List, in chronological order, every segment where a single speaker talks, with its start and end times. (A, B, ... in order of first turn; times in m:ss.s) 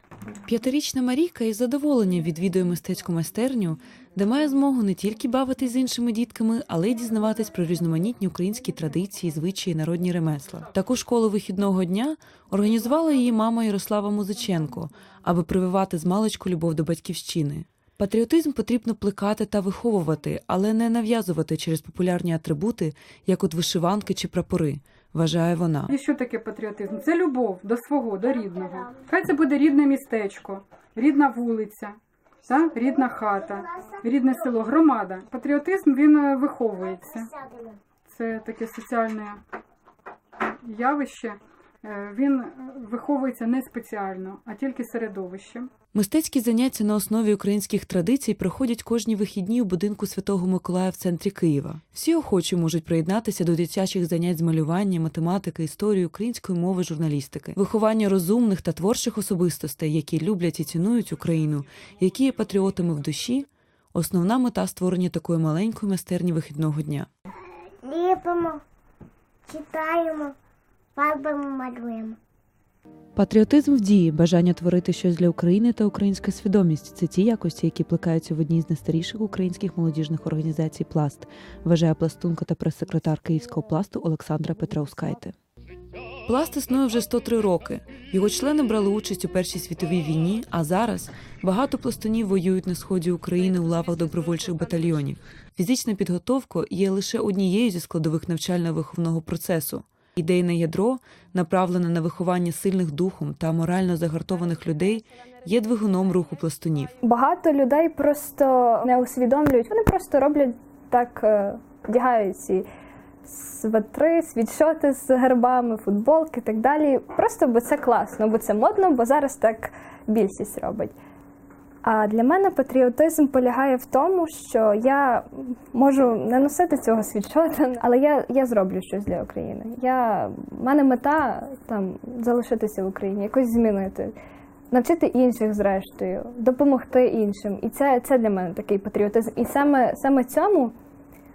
0:00.4-0:25.9 A
0:25.9-0:37.4 B
0:37.4-0:37.8 C
0:38.0-0:39.4 B
0:40.6-0:45.7 B
0:45.9-1:07.1 A
1:07.8-1:08.6 C
1:09.5-1:10.4 C
1:11.0-1:12.2 C
1:13.2-1:25.3 A
1:26.3-1:47.0 A
1:47.0-1:52.6 D
1:53.2-2:00.9 D
2:01.8-2:14.1 D
2:14.7-2:20.7 D